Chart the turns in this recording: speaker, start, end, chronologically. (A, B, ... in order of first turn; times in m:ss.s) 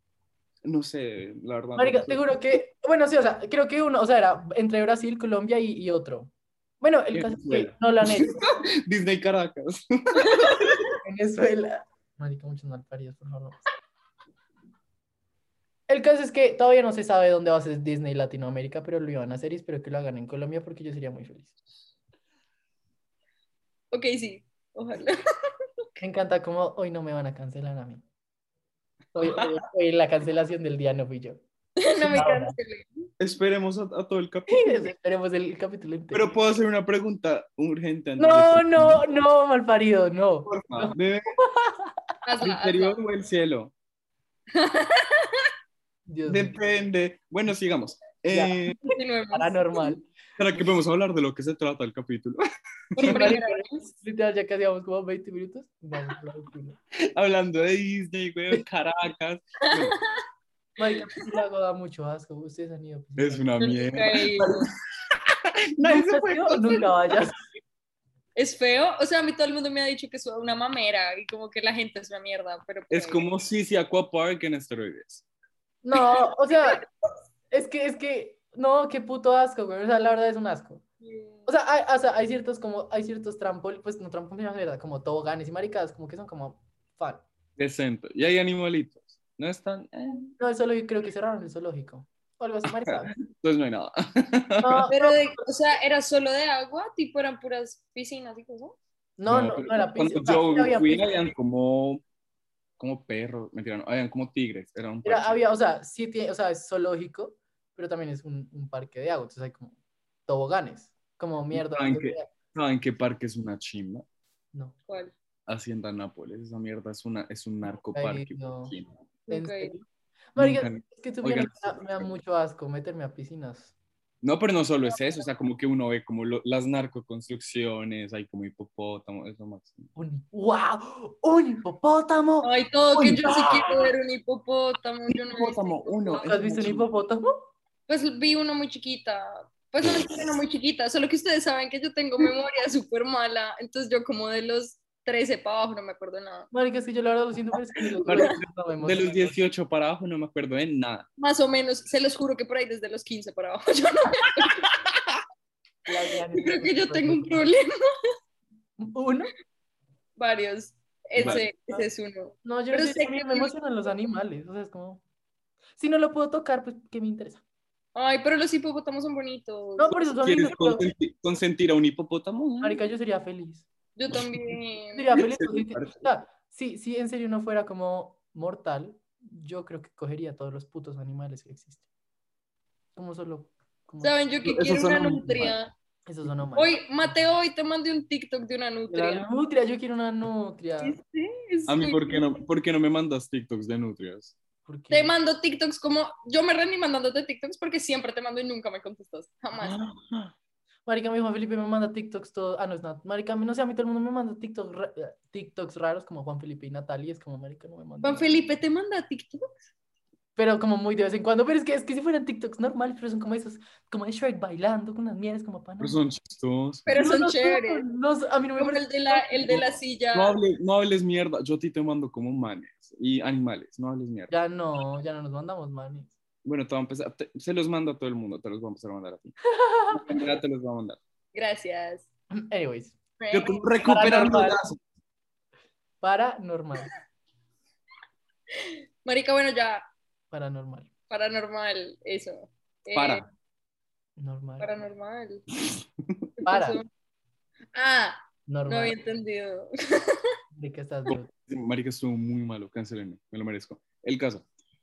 0:00.6-0:02.3 A
0:01.8-0:08.4 B
0:07.1-0:10.8 A
0:10.2-0:10.7 C
0:11.0-0:13.6 B
0:15.9-0:21.5 B
0:23.9-0:25.2 C
0:26.0-0:28.0 B
0:29.2-0:31.4 B
0:31.8-0:33.1 C
0:32.0-0:32.6 B
0:33.2-0:34.8 A
0:34.5-0:36.3 B
0:36.1-0:39.0 A
0:38.2-0:41.9 B
0:40.5-0:41.3 A
0:42.2-0:43.0 C
0:42.4-0:43.7 A
0:44.5-0:45.5 C
0:46.1-0:46.6 B
0:46.3-0:48.8 A
0:48.3-0:50.7 B
0:48.8-0:49.8 C
0:50.4-0:52.4 A
0:52.9-0:53.3 A
0:53.0-0:53.8 C
0:53.0-0:56.8 B
0:57.2-1:00.0 A
0:59.7-1:00.2 C
1:00.8-1:03.5 B
1:03.2-1:05.2 A
1:03.6-1:04.7 C
1:05.7-1:06.8 A
1:05.8-1:07.4 B
1:08.4-1:13.2 C
1:12.9-1:15.2 A
1:15.8-1:16.8 B
1:17.5-1:20.8 B
1:21.0-1:21.5 C
1:21.5-1:27.2 B
1:27.6-1:30.3 A
1:30.4-1:33.1 B
1:32.9-1:34.9 A
1:34.6-1:35.4 B
1:34.9-1:38.8 C
1:39.2-1:41.3 B
1:39.3-1:42.0 A
1:42.8-1:45.4 A
1:45.0-1:49.8 B
1:50.3-1:52.3 B
1:51.5-1:54.0 A
1:54.9-1:55.1 C
1:55.5-1:58.9 A
1:57.9-1:58.8 B
1:59.3-1:59.7 C
1:59.3-2:03.7 B
2:00.4-2:02.1 A
2:04.2-2:09.9 A
2:04.9-2:05.2 C
2:10.0-2:13.9 B
2:12.4-2:16.3 C
2:15.1-2:16.9 A
2:16.2-2:17.3 B
2:17.9-2:26.5 C
2:19.8-2:20.3 A
2:26.5-2:29.4 B
2:28.0-2:28.3 C
2:28.1-2:31.1 A
2:31.2-2:34.7 C
2:35.9-2:37.5 B
2:36.4-2:37.7 C
2:38.8-2:39.3 B
2:40.2-2:43.5 C
2:41.2-2:41.4 A
2:41.2-2:41.9 B
2:42.4-2:45.0 B
2:45.8-2:47.4 B
2:48.0-2:50.0 C
2:49.8-2:50.8 B
2:50.2-2:52.8 A
2:52.6-2:53.7 B
2:54.0-2:55.1 C
2:54.1-2:54.6 A
2:55.0-3:01.8 B
2:55.1-2:56.0 A
3:03.0-3:04.2 B
3:04.0-3:05.7 C
3:04.4-3:05.6 A
3:06.1-3:07.1 B
3:06.6-3:09.3 C
3:08.9-3:11.0 B
3:10.8-3:12.2 C
3:11.7-3:14.4 A
3:14.6-3:15.1 B
3:14.9-3:19.8 C
3:19.6-3:20.3 A
3:20.9-3:28.4 B
3:28.0-3:29.5 C
3:30.4-3:36.0 B
3:35.8-3:37.0 A
3:36.9-3:37.9 C
3:37.0-3:39.7 B
3:38.6-3:40.4 C
3:39.5-3:44.3 A
3:44.3-3:46.1 B
3:46.4-3:49.3 A
3:49.6-3:50.0 B
3:49.9-3:51.0 A
3:51.3-3:52.1 C
3:52.3-3:53.0 B
3:53.2-3:53.7 C
3:53.3-3:54.8 A
3:53.8-3:54.6 B
3:56.0-3:56.9 B
3:58.6-3:59.9 C
4:00.3-4:00.9 B
4:01.1-4:03.2 C
4:02.9-4:03.2 A
4:04.2-4:04.7 B
4:04.6-4:05.4 C
4:06.4-4:06.9 C
4:06.5-4:06.8 B
4:07.7-4:10.3 C
4:08.5-4:09.0 B
4:10.5-4:11.3 B
4:11.1-4:14.4 A